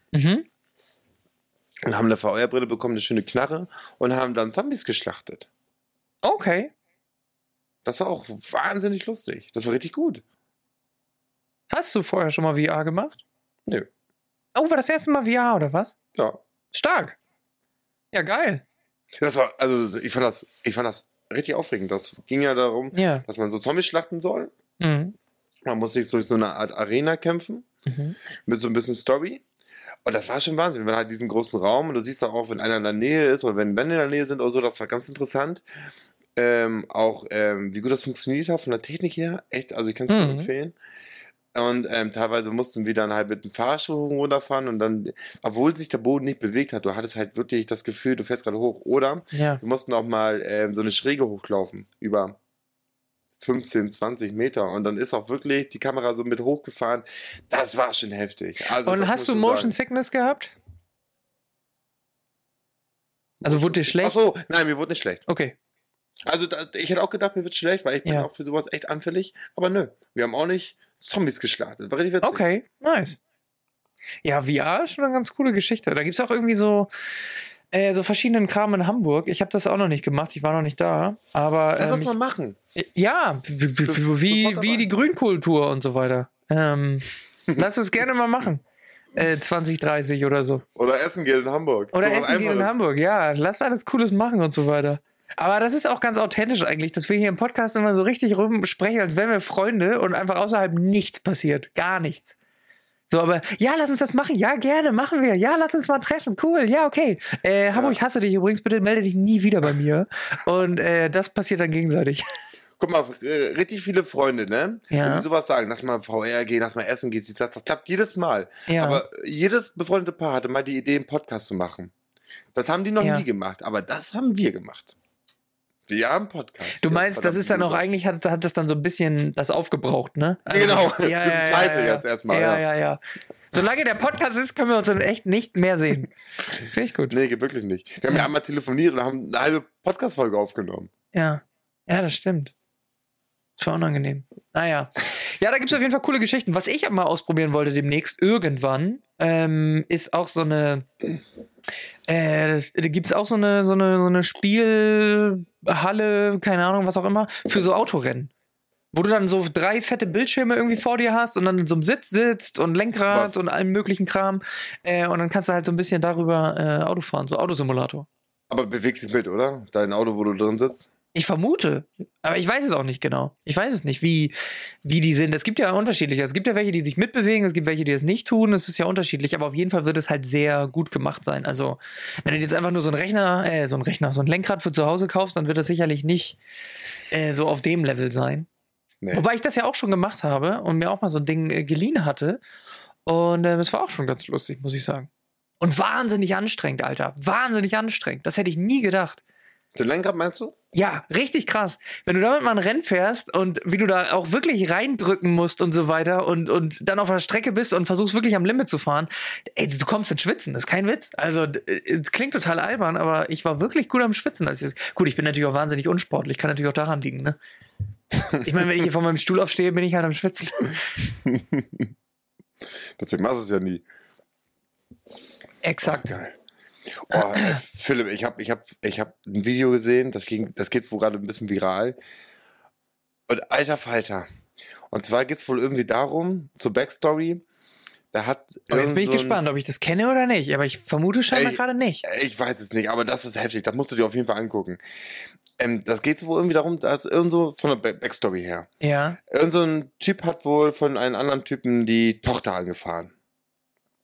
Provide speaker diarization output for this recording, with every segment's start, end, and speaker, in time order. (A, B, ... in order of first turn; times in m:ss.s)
0:00.1-0:00.4 A
0:01.8-0:05.5 B
0:06.2-0:06.7 A
0:07.8-0:10.2 B
0:11.7-0:13.2 A
0:14.5-0:15.9 A
0:16.7-0:17.2 A
0:18.1-0:18.6 A
0:19.2-0:24.5 B
0:22.9-0:23.2 A
0:24.8-0:25.1 A
0:25.6-0:27.6 B
0:27.8-0:28.2 A
0:28.4-0:29.4 B
0:30.0-0:35.6 B
0:36.4-0:40.7 B
0:40.1-0:40.5 A
0:41.5-0:52.4 B
0:49.3-0:49.6 A
0:53.4-0:59.7 B
0:58.8-1:00.5 A
1:03.4-1:05.2 B
1:03.4-1:04.2 A
1:05.3-1:05.6 A
1:06.2-1:12.4 B
1:12.2-1:13.2 A
1:14.2-1:16.9 A
1:17.7-1:22.1 A
1:21.8-1:22.6 B
1:22.8-1:28.6 A
1:23.8-1:24.9 B
1:29.1-1:30.6 A
1:30.7-1:32.8 B
1:31.9-1:42.4 A
1:43.1-1:52.2 A
1:47.7-1:48.0 B
1:52.8-2:01.9 B
1:54.9-1:55.2 A
1:58.7-1:59.0 A
2:02.5-2:04.9 B
2:03.0-2:03.2 A
2:05.9-2:07.8 B
2:06.7-2:13.0 A
2:10.5-2:12.6 B
2:13.5-2:17.2 A
2:17.1-2:20.9 B
2:21.1-2:22.5 A
2:23.6-2:30.8 A
2:32.1-2:38.3 A
2:38.9-2:48.1 A
2:48.5-2:50.9 B
2:51.1-3:06.4 A
3:07.1-3:08.5 A
3:09.1-3:12.4 A
3:13.0-3:15.1 A
3:15.6-3:19.2 A
3:19.7-3:20.5 B
3:20.7-3:37.4 A
3:38.4-3:40.8 A
3:41.2-3:41.9 B
3:43.0-3:43.8 B
3:45.6-3:46.1 A
3:45.8-3:46.4 B
3:47.0-3:52.0 B
3:47.2-3:47.6 A
3:53.3-3:54.2 B
3:54.9-3:57.4 B
3:58.1-3:59.4 B
3:58.7-4:02.0 A
4:01.3-4:04.8 B
4:05.6-4:08.7 B
4:08.8-4:09.2 A
4:09.3-4:13.1 B